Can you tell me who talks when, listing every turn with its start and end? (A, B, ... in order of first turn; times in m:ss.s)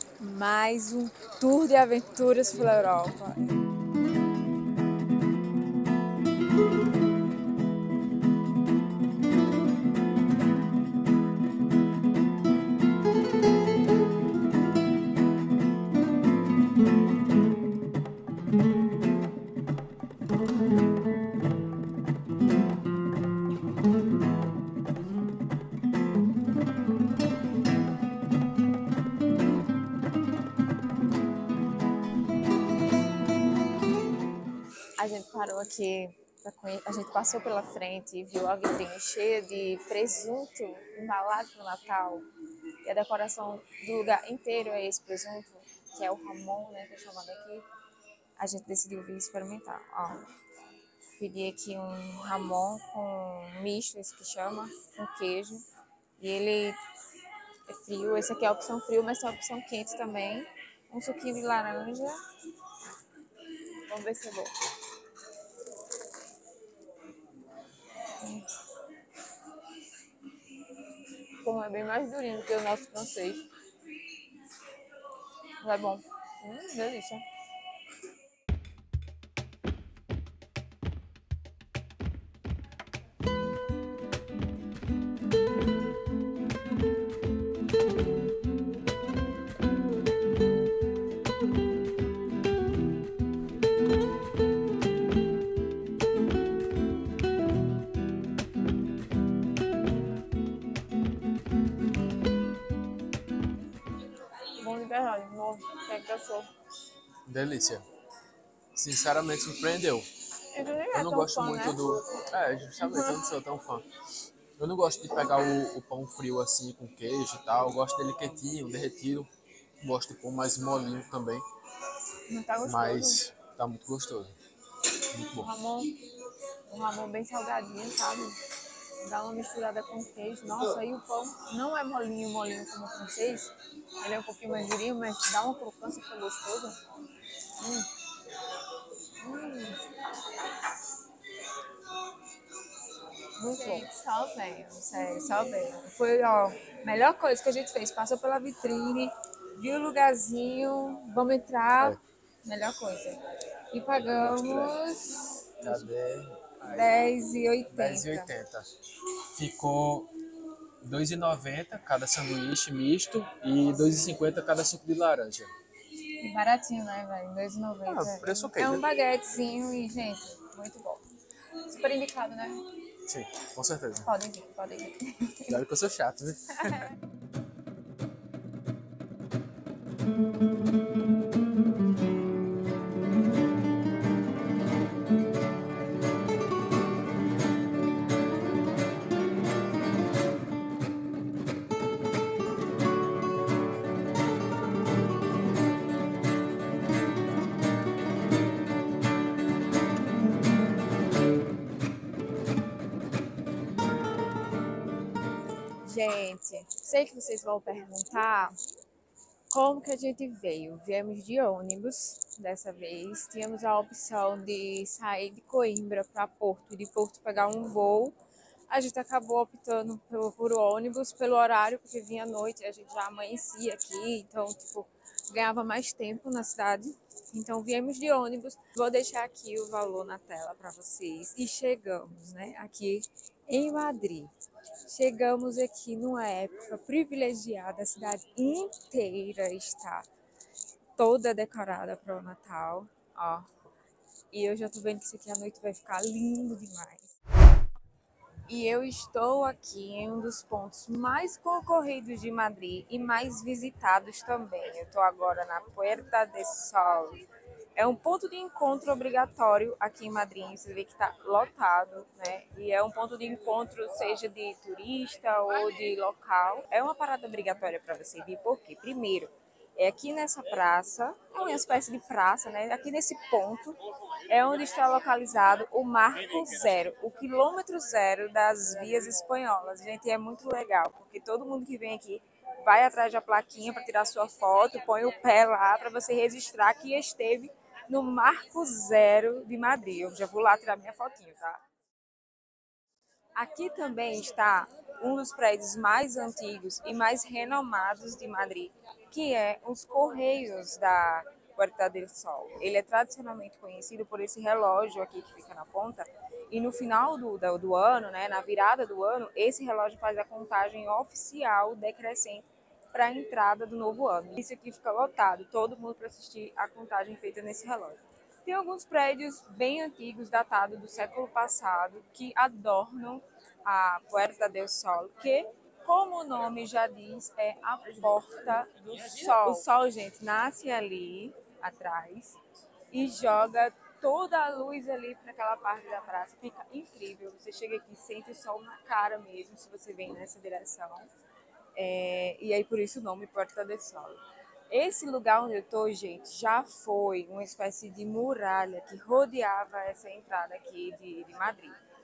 0:00.2-0:03.6 A
0:35.0-0:42.2 A
0:42.8-0:47.6 A
0:48.4-0:50.3 A
0:51.2-0:55.6 A
0:56.2-0:56.8 A
0:57.7-1:02.2 A
1:03.5-1:04.5 A
1:08.0-1:08.5 A
1:09.3-1:09.8 A
1:10.4-1:14.4 A
1:15.6-1:17.2 A
1:44.4-1:46.5 A
1:47.3-1:47.8 B
1:48.7-1:50.1 B
1:50.5-1:52.2 A
1:50.9-1:53.9 B
1:52.8-1:53.2 A
1:54.6-1:59.3 B
1:59.8-2:01.4 B
2:02.3-2:03.2 A
2:02.6-2:04.4 B
2:05.1-2:05.5 B
2:05.4-2:06.1 A
2:06.7-2:08.4 A
2:09.0-2:16.8 A
2:17.6-2:17.9 A
2:19.2-2:20.7 A
2:23.3-2:35.9 A
2:34.0-2:34.8 B
2:35.6-2:36.9 B
2:36.6-2:38.3 A
2:37.7-2:40.1 B
2:40.8-2:45.5 B
2:46.0-2:51.0 A
2:47.9-2:48.8 B
2:51.6-2:52.7 A
2:53.1-2:54.1 B
2:54.0-2:55.6 A
2:55.5-2:56.9 B
2:56.5-2:56.9 A
3:25.8-3:28.6 A
3:29.5-3:38.2 A
3:38.7-3:54.3 A
3:54.8-4:00.1 A
4:01.0-4:03.5 A
4:04.3-4:07.2 A
4:08.5-4:17.2 A
4:17.8-4:51.6 A
4:53.4-5:32.4 A
5:32.9-5:41.1 A
5:41.8-5:51.8 A